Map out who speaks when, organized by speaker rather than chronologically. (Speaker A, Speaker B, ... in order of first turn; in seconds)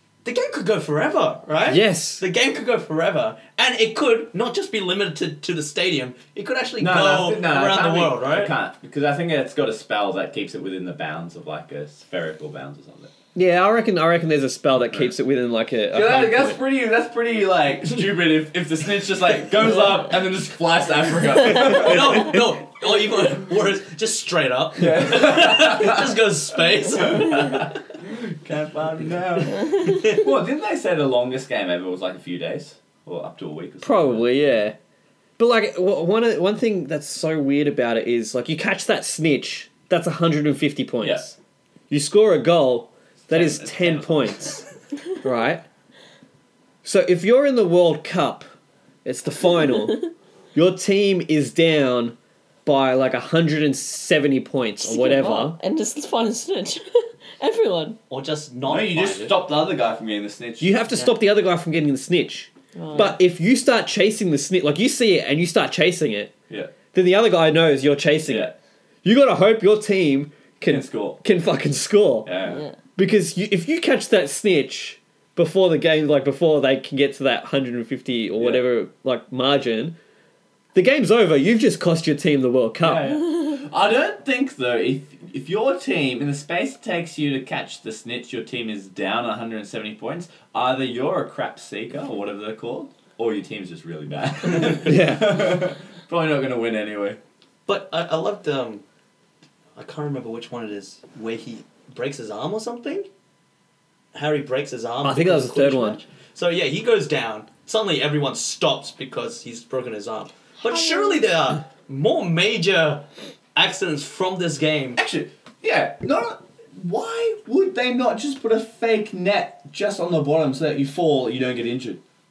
Speaker A: 0.2-8.5, 21.4-27.7, 29.7-30.2, 58.1-59.4, 97.7-98.8, 99.8-103.1, 104.1-115.0
Speaker B: 1.6-2.2, 13.3-16.6, 33.8-34.8, 35.4-41.4, 41.9-44.6, 45.2-45.6, 46.8-48.5, 49.0-50.0, 50.5-55.6, 60.6-66.3, 66.9-68.5, 69.0-72.3, 73.0-80.0, 80.7-83.2, 94.8-95.6, 105.0-106.0
Speaker C: 6.8-13.1, 14.9-15.1, 15.9-22.5, 24.8-26.2, 26.8-34.6, 43.3-44.6, 58.6-60.8, 68.3-68.5, 70.7-71.2, 72.2-72.6, 82.8-97.2, 115.0-122.0
Speaker D: 29.7-30.0, 54.8-58.0, 62.7-63.2, 72.5-72.8, 110.6-111.2